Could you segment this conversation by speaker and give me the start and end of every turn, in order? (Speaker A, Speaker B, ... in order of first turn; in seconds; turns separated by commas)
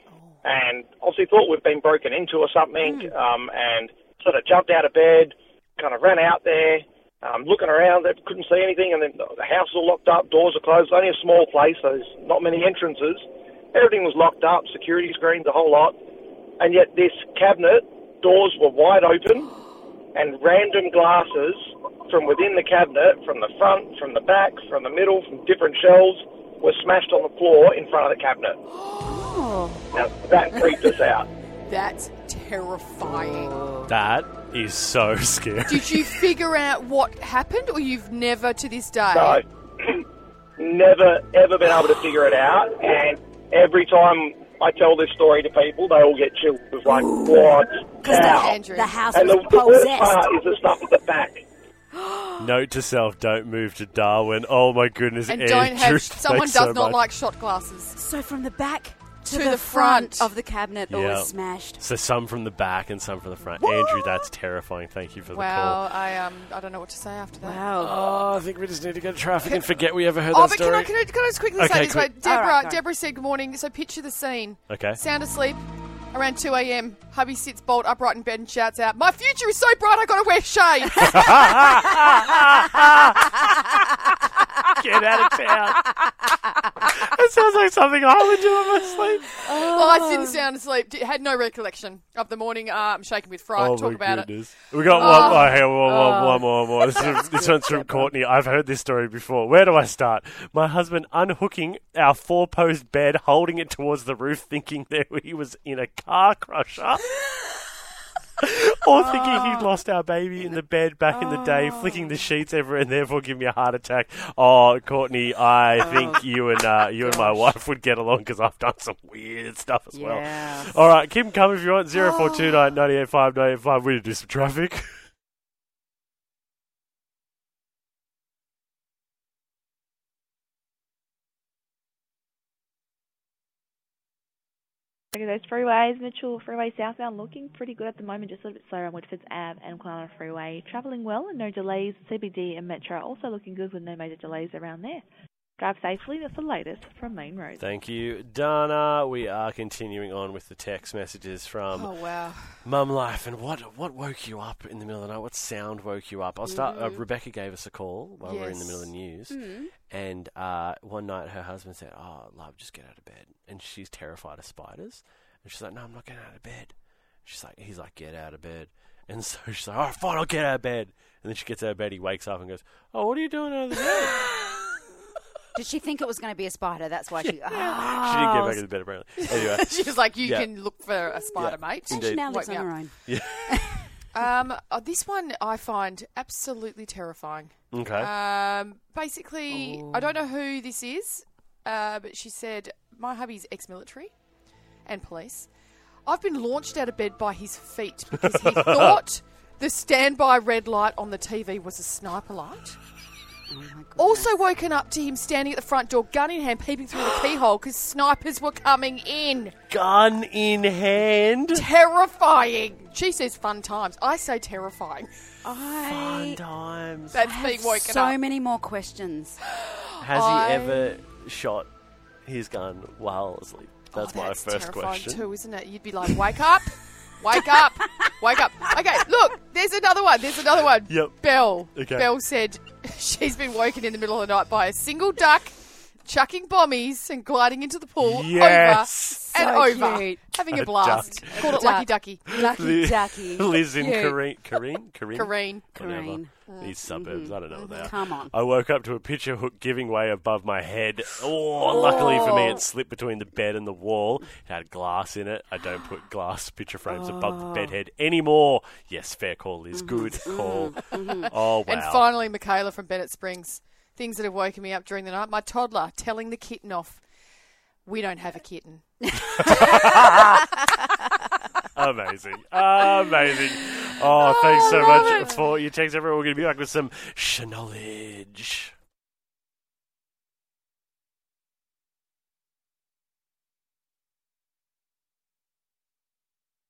Speaker A: 0.1-0.4, Speaker B: 0.4-15.9, Speaker C: 2.8-3.1, Speaker B: 16.6-19.5, Speaker B: 20.1-28.6, Speaker A: 28.9-29.4, Speaker C: 29.0-29.9, Speaker B: 29.9-31.3, Speaker A: 31.7-33.5, Speaker C: 33.0-33.9, Speaker D: 33.9-36.3, Speaker A: 35.6-39.4, Speaker B: 39.1-40.0, Speaker B: 40.6-48.5, Speaker C: 46.9-50.2, Speaker A: 48.0-49.0, Speaker B: 49.1-51.4, Speaker C: 52.0-52.5, Speaker D: 52.4-57.0, Speaker A: 55.2-58.0, Speaker C: 57.9-61.8, Speaker A: 59.3-60.3, Speaker D: 60.9-65.8, Speaker C: 63.6-64.3, Speaker A: 65.3-67.6, Speaker C: 67.4-68.0, Speaker D: 67.8-70.9, Speaker A: 70.3-75.6, Speaker D: 71.6-72.1, Speaker C: 72.2-72.8, Speaker D: 74.7-75.0, Speaker A: 76.1-81.6, Speaker D: 81.0-83.5, Speaker D: 84.6-85.9, Speaker D: 86.8-90.0, Speaker C: 89.4-90.4, Speaker A: 89.6-94.3, Speaker D: 93.5-107.0, Speaker A: 94.9-95.7, Speaker C: 94.9-98.1, Speaker D: 108.4-124.9, Speaker C: 108.9-109.7, Speaker C: 111.1-112.1, Speaker C: 115.8-116.2, Speaker C: 117.0-117.5, Speaker C: 119.9-120.7, Speaker C: 121.9-122.6, Speaker E: 135.1-145.0, Speaker E: 145.6-147.6, Speaker D: 147.6-151.9, Speaker A: 151.7-152.5, Speaker D: 152.6-159.4, Speaker C: 156.4-157.0, Speaker A: 158.2-158.9, Speaker C: 159.3-159.7, Speaker D: 159.9-166.7, Speaker D: 167.2-174.2, Speaker C: 175.5-178.6, Speaker D: 177.2-180.5, Speaker A: 179.2-182.7, Speaker D: 181.3-182.2, Speaker C: 181.8-183.9, Speaker D: 183.1-183.5, Speaker A: 184.1-194.1, Speaker D: 187.7-188.1, Speaker C: 189.5-190.2, Speaker A: 194.8-195.5, Speaker A: 196.1-202.8, Speaker D: 198.3-198.8, Speaker C: 203.5-204.3, Speaker A: 204.0-209.5, Speaker D: 209.7-211.7, Speaker A: 211.5-215.1, Speaker C: 215.4-216.4, Speaker D: 215.9-217.2, Speaker A: 217.1-218.2, Speaker C: 217.2-219.4, Speaker D: 220.0-221.7, Speaker A: 220.1-220.9, Speaker D: 222.2-225.2, Speaker A: 223.9-235.5, Speaker D: 230.8-232.1, Speaker A: 236.1-242.5, Speaker D: 238.0-239.2, Speaker C: 239.3-240.2, Speaker D: 240.5-241.6, Speaker C: 241.3-244.2, Speaker D: 242.3-262.1, Speaker A: 245.1-245.6, Speaker C: 245.7-246.3, Speaker A: 246.5-246.7, Speaker C: 246.8-248.3, Speaker A: 247.5-247.9, Speaker C: 251.7-252.6, Speaker C: 256.9-257.7, Speaker C: 259.7-261.3, Speaker A: 261.7-267.0, Speaker A: 267.8-268.8, Speaker C: 269.0-270.4, Speaker D: 269.4-270.4, Speaker D: 271.7-278.7, Speaker A: 274.4-275.3